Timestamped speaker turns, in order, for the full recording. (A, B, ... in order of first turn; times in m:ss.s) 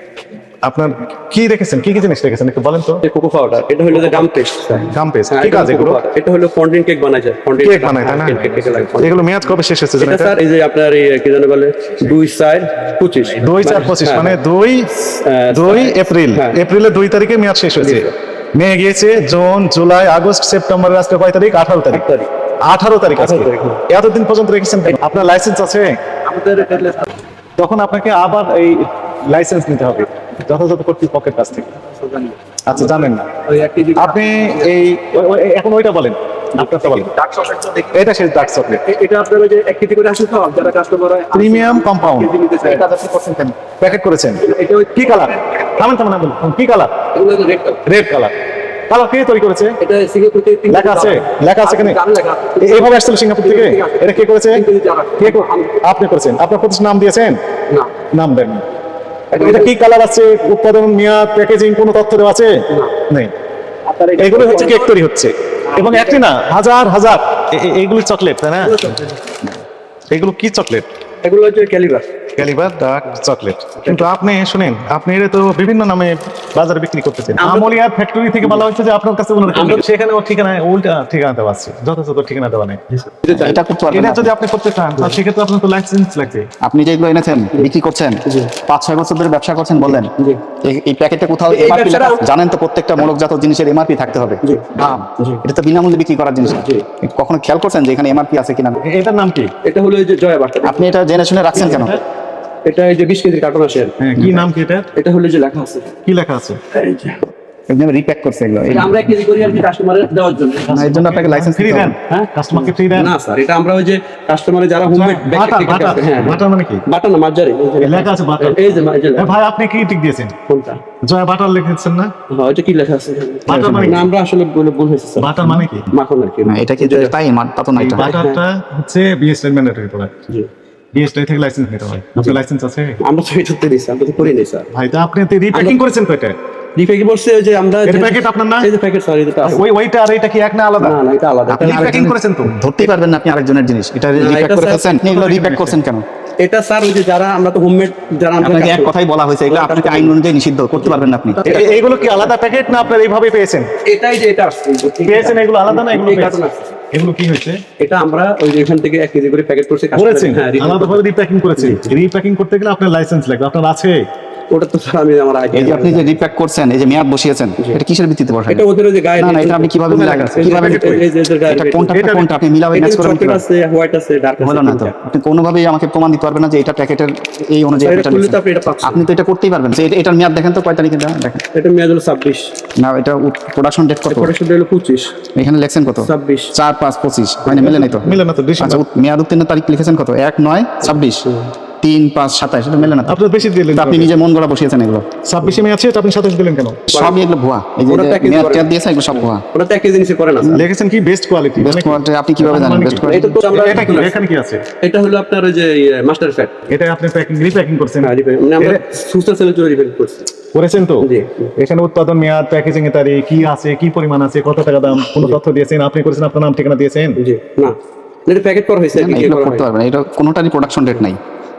0:00.7-0:03.0 A
0:03.0-0:09.2 B
0:03.9-0:06.0 A
0:07.6-0:08.4 A
0:09.0-0:10.3 A
0:10.0-0:14.4 B
0:13.4-0:22.0 A
0:15.2-0:16.6 B
0:17.8-0:18.1 B
0:21.9-0:22.3 B
0:22.7-0:26.0 A
0:23.2-0:23.8 B
0:24.8-0:25.1 B
0:26.2-0:27.1 B
0:27.6-0:31.7 A
0:31.9-0:34.7 B
0:32.7-0:33.3 A
0:34.0-0:37.1 A
0:36.6-0:37.9 B
0:37.9-0:38.8 A
0:38.7-0:43.6 B
0:41.3-0:42.3 A
0:42.6-0:42.9 C
0:43.8-0:46.9 A
0:44.4-0:45.4 B
0:47.1-0:47.8 B
0:47.9-0:48.3 A
0:48.9-0:49.8 A
0:49.8-0:55.8 B
0:50.7-0:52.0 A
0:52.6-0:54.6 A
0:55.2-0:57.4 A
0:58.1-0:58.6 A
0:59.3-0:59.8 B
0:59.3-1:03.3 A
1:03.9-1:04.9 B
1:04.2-1:08.9 A
1:05.7-1:06.2 B
1:08.6-1:09.4 B
1:10.1-1:10.9 A
1:11.2-1:12.1 B
1:12.4-1:22.8 A
1:13.8-1:14.1 B
1:17.4-1:17.8 B
1:19.5-1:19.8 B
1:22.9-1:23.6 B
1:23.3-1:24.3 C
1:23.9-1:26.5 A
1:26.6-1:38.8 C
1:28.2-1:28.5 B
1:29.8-1:30.4 B
1:31.5-1:32.2 B
1:34.4-1:35.4 B
1:36.6-1:36.8 B
1:38.8-1:39.5 A
1:39.6-1:40.9 B
1:40.6-1:42.0 C
1:41.6-1:41.9 B
1:41.6-1:42.0 A
1:42.6-1:44.0 B
1:44.0-1:44.9 A
1:45.0-1:45.9 B
1:46.0-1:46.6 A
1:46.7-1:47.2 B
1:47.7-1:49.0 C
1:48.7-1:50.8 B
1:50.7-1:53.1 A
1:50.7-1:52.0 C
1:52.1-1:59.3 B
1:54.9-1:56.8 A
1:57.8-2:00.4 A
2:00.5-2:00.8 B
2:01.0-2:02.1 A
2:02.3-2:07.2 B
2:03.5-2:04.1 A
2:03.5-2:04.0 C
2:05.2-2:05.9 A
2:06.5-2:08.1 C
2:07.8-2:10.2 A
2:08.0-2:08.4 B
2:10.9-2:13.0 A
2:13.0-2:14.7 B
2:14.7-2:16.4 A
2:15.5-2:15.8 B
2:16.8-2:19.6 B
2:17.8-2:18.7 A
2:19.5-2:21.0 A
2:20.8-2:21.9 B
2:21.5-2:26.0 C
2:21.6-2:22.6 A
2:24.2-2:24.9 B
2:24.9-2:25.8 A
2:26.4-2:28.9 B
2:28.4-2:31.6 C
2:29.5-2:30.2 B
2:30.8-2:32.3 B
2:31.5-2:33.7 A
2:33.8-2:36.7 B
2:35.1-2:37.6 A
2:37.8-2:41.0 B
2:39.9-2:44.1 A
2:41.6-2:41.9 B
2:44.5-2:46.2 B
2:45.5-2:48.6 C
2:48.5-2:52.0 B
2:49.2-2:50.8 C
2:49.9-2:51.0 A
2:51.5-2:53.4 C
2:51.9-2:52.3 A
2:52.7-2:54.9 B
2:54.4-3:01.4 C
2:57.8-2:59.1 B
3:01.5-3:02.5 B
3:02.8-3:04.3 C
3:04.1-3:05.1 B
3:05.3-3:11.3 C
3:06.0-3:06.5 B
3:07.5-3:08.1 B
3:07.6-3:08.8 A
3:11.8-3:13.2 C
3:13.1-3:14.1 A
3:13.7-3:15.0 C
3:15.3-3:16.8 A
3:16.9-3:19.4 C
3:16.9-3:17.2 B
3:17.9-3:18.7 B
3:19.5-3:20.6 B
3:20.5-3:24.6 A
3:21.6-3:23.3 C
3:23.0-3:24.2 B
3:24.8-3:26.6 B
3:26.7-3:28.8 A
3:28.0-3:30.3 B
3:30.5-3:31.1 A
3:31.0-3:31.5 B
3:31.6-3:37.2 A
3:37.2-3:37.8 B
3:38.3-3:39.7 B
3:38.9-3:41.2 C